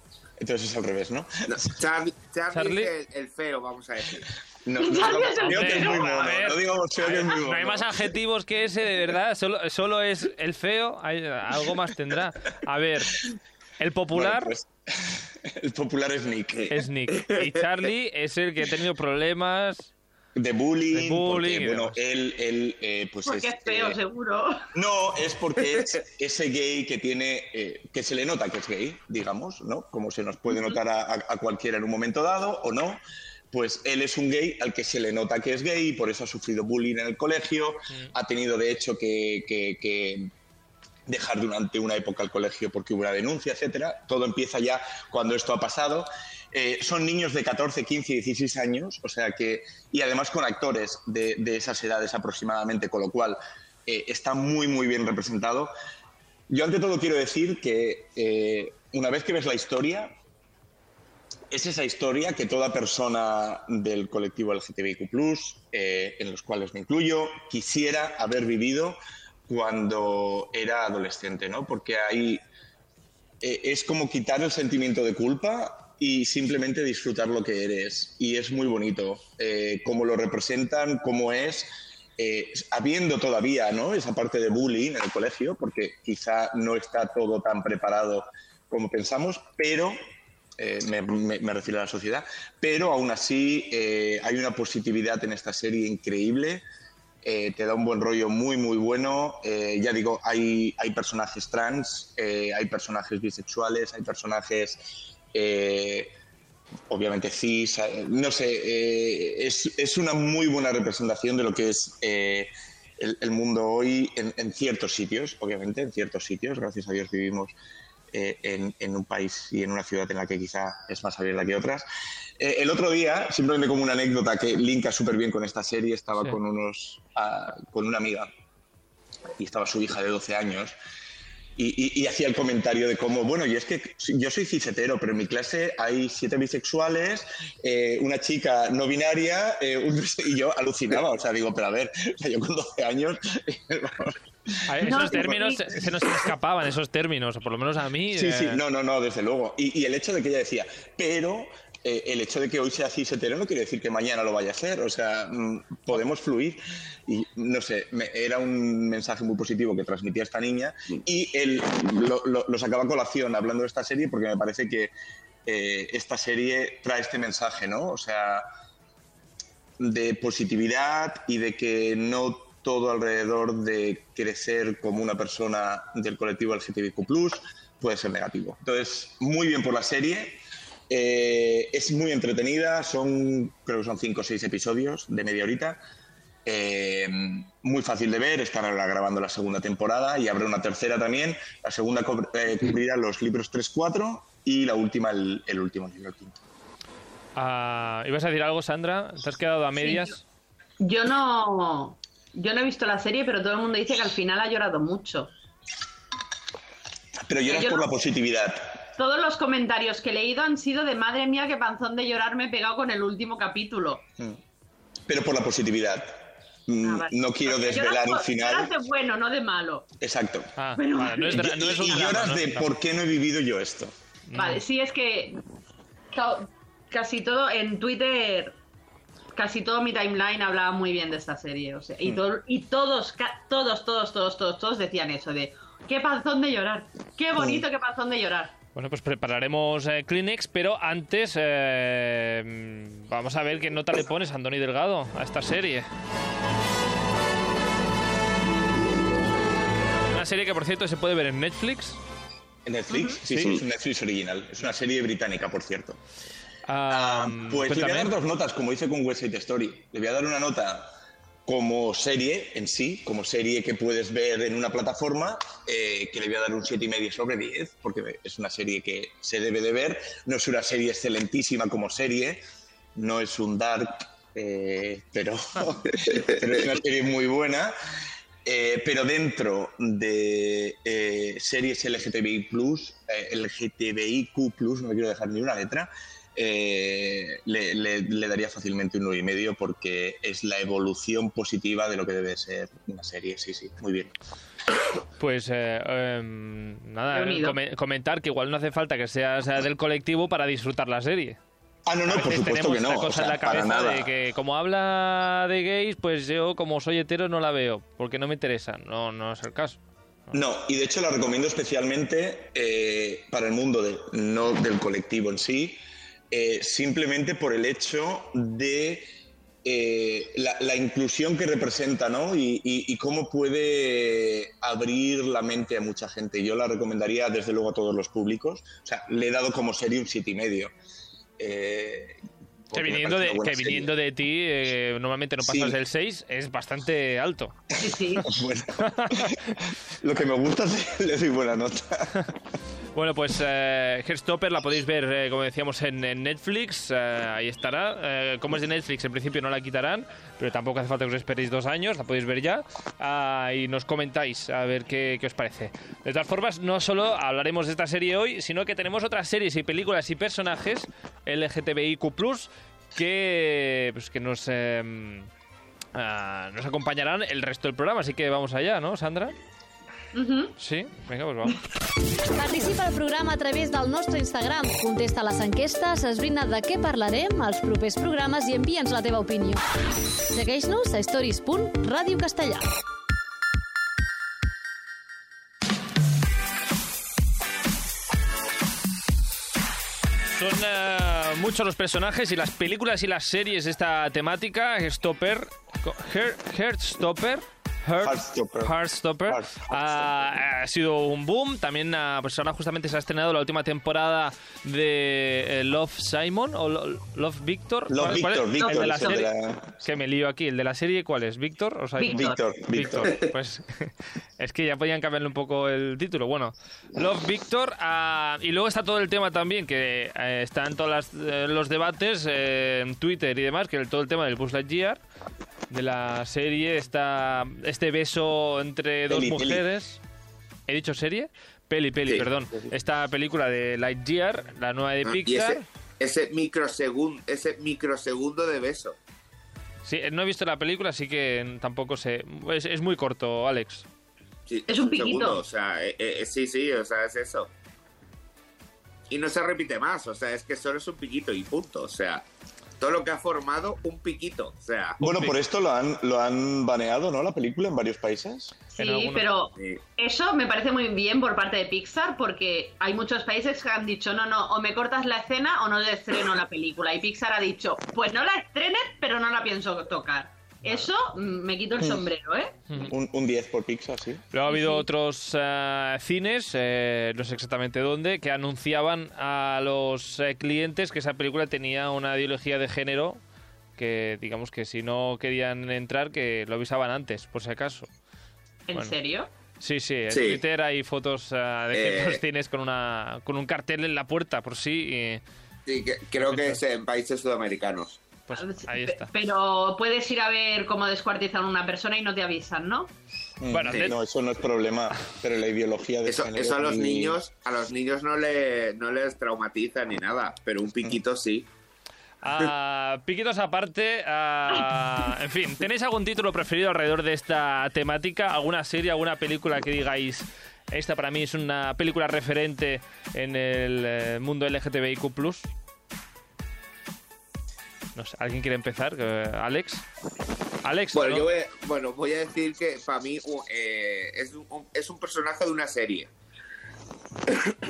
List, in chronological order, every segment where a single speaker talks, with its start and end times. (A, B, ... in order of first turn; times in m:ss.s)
0:00.4-0:01.8 A
0:01.5-0:04.3 B
0:02.5-0:02.9 C
0:04.6-0:08.0 A
0:04.8-0:06.1 D
0:05.4-0:13.3 C
0:13.8-0:14.5 C
0:14.1-0:16.7 A
0:16.6-0:17.6 B
0:16.7-0:19.9 C
0:20.4-0:24.0 A
0:20.9-0:22.0 C
0:23.3-0:24.6 D
0:24.7-0:33.0 A
0:30.5-0:30.8 D
0:33.5-0:40.3 A
0:41.1-0:55.7 A
0:56.5-1:00.1 A
1:01.5-1:12.4 A
1:13.4-1:30.0 A
1:30.6-1:36.6 A
1:37.2-1:46.1 A
1:46.9-1:57.6 A
1:58.1-2:01.9 A
2:02.4-2:08.3 A
2:09.4-2:10.8 A
2:11.6-2:25.8 A
2:24.7-2:28.6 C
2:24.8-2:25.6 D
2:28.1-2:44.9 A
2:45.5-2:48.5 A
2:49.8-3:00.4 A
3:00.9-3:05.8 A
3:06.5-3:16.4 A
3:17.4-3:20.2 C
3:19.8-3:20.2 D
3:20.8-3:25.3 D
3:27.2-3:28.9 A
3:27.5-3:27.9 D
3:29.0-3:34.0 D
3:35.1-3:38.7 A
3:36.8-3:39.9 D
3:40.0-3:40.5 A
3:40.6-3:42.7 C
3:40.8-3:41.5 D
3:41.3-3:43.9 A
3:44.3-3:44.6 C
3:44.4-3:45.4 D
3:46.1-3:48.5 D
3:49.4-3:58.5 D
3:58.8-4:05.9 C
4:10.1-4:12.0 C
4:12.7-4:16.0 A
4:12.9-4:13.2 D
4:16.7-4:18.1 C
4:16.9-4:20.9 A
4:21.5-4:32.4 A
4:33.0-4:37.7 A
4:38.4-4:54.1 A
4:55.2-5:01.4 C
4:57.1-4:57.6 D
5:01.9-5:04.1 A
5:02.1-5:09.8 C
5:10.3-5:15.8 A
5:16.3-5:19.1 A
5:19.6-5:30.7 A
5:31.4-5:32.2 A
5:32.7-5:34.0 A
5:32.7-5:37.6 C
5:35.4-5:35.8 A
5:37.8-5:38.4 D
5:38.2-5:42.3 A
5:38.8-5:39.4 C
5:42.9-6:05.3 C
6:06.0-6:09.3 C
6:10.1-6:10.5 D
6:10.6-6:11.6 C
6:12.4-6:19.6 E
6:20.3-6:22.7 E
6:30.3-6:49.3 C
6:38.0-6:38.7 A
6:39.3-6:40.3 A
6:47.9-6:49.8 A
6:48.6-6:49.2 D
6:49.8-7:05.0 C
6:52.0-6:53.0 D
6:52.1-6:53.2 A
7:05.7-7:10.0 C
7:09.1-7:09.6 A
7:10.7-7:15.6 C
7:15.0-7:19.0 B
7:19.8-7:23.9 C
7:24.5-7:27.5 B
7:24.7-7:25.4 D
7:29.1-7:32.2 B
7:32.8-7:35.0 B
7:35.0-7:38.5 A
7:35.0-7:35.4 C
7:38.8-7:52.6 D
7:38.8-7:39.3 C
7:52.8-7:54.2 A
7:54.3-8:03.2 C
7:54.5-7:54.8 D
8:03.8-8:07.9 C
8:08.7-8:09.3 D
8:09.6-8:15.2 C
8:10.1-8:10.4 B
8:11.7-8:12.2 B
8:15.7-8:18.0 B
8:16.2-8:16.6 C
8:18.3-8:19.1 C
8:18.3-8:22.9 D
8:23.4-8:27.2 A
8:23.5-8:24.0 C
8:26.1-8:31.5 B
8:32.2-8:45.5 C
8:48.0-8:49.8 C
8:50.6-8:51.3 C
8:50.9-8:56.1 B